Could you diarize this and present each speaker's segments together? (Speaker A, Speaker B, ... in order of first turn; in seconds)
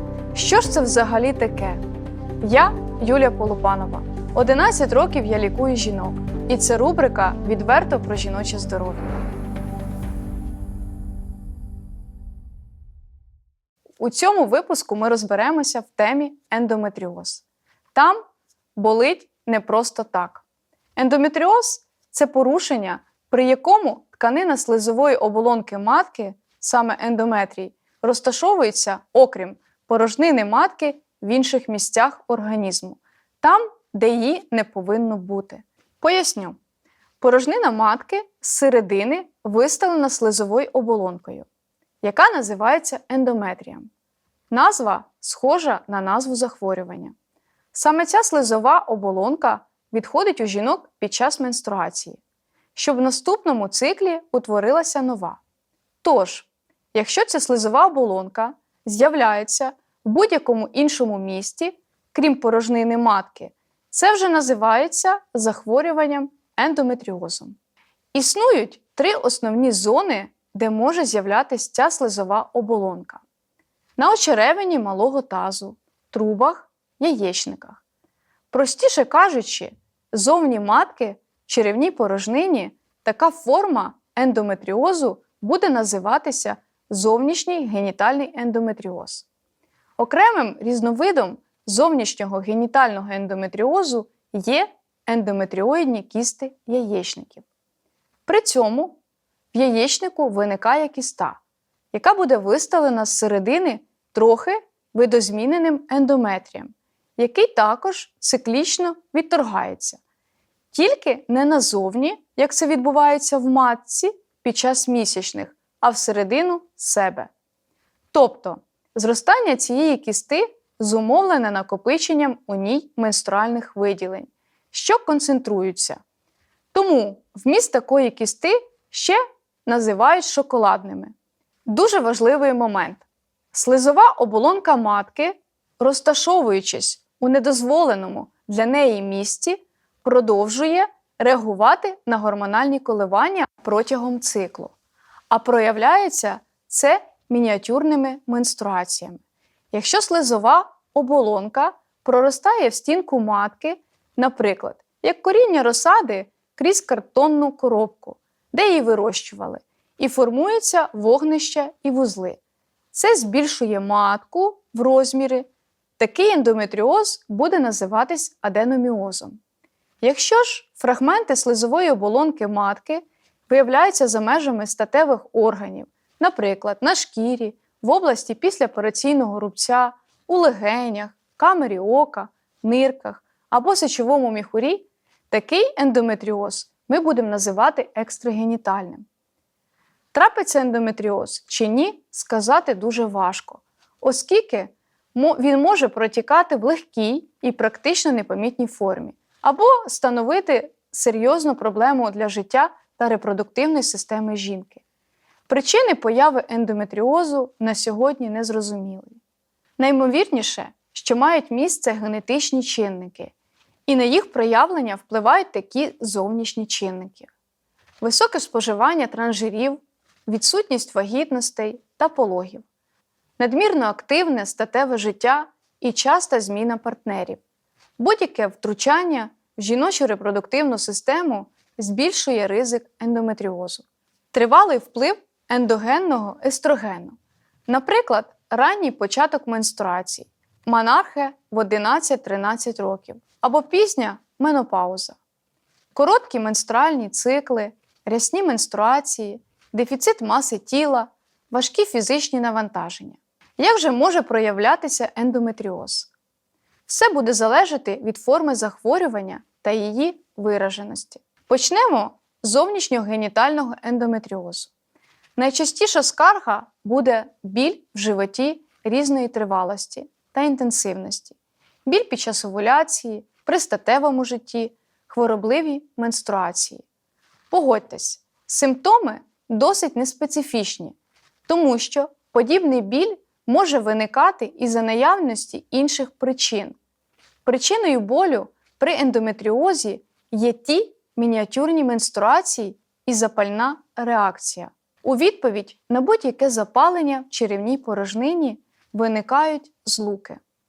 Speaker A: 0.3-1.8, 2.4-9.1, 14.0-17.4, 17.9-18.2, 18.8-20.4, 20.9-36.6, 37.2-41.5, 42.0-43.9, 44.5-47.1, 47.7-52.2, 52.8-55.4, 56.0-67.6, 68.1-73.2, 74.0-77.8, 78.5-89.3, 90.0-97.5, 98.3-99.0, 99.5-101.4, 101.9-110.0, 110.7-117.3, 118.1-126.0, 126.7-131.1, 131.7-144.7, 145.3-149.2, 149.7-162.4, 162.9-165.4, 166.0-169.4, 170.0-189.0, 190.1-204.8, 205.5-209.2, 209.8-213.3, 213.9-217.3, 218.0-222.6, 223.4-227.4, 228.0-237.2, 237.7-245.2, 245.9-256.1, 256.9-264.7, 265.4-271.4, 271.9-276.8, 277.5-280.9, 281.5-286.8, 287.4-300.4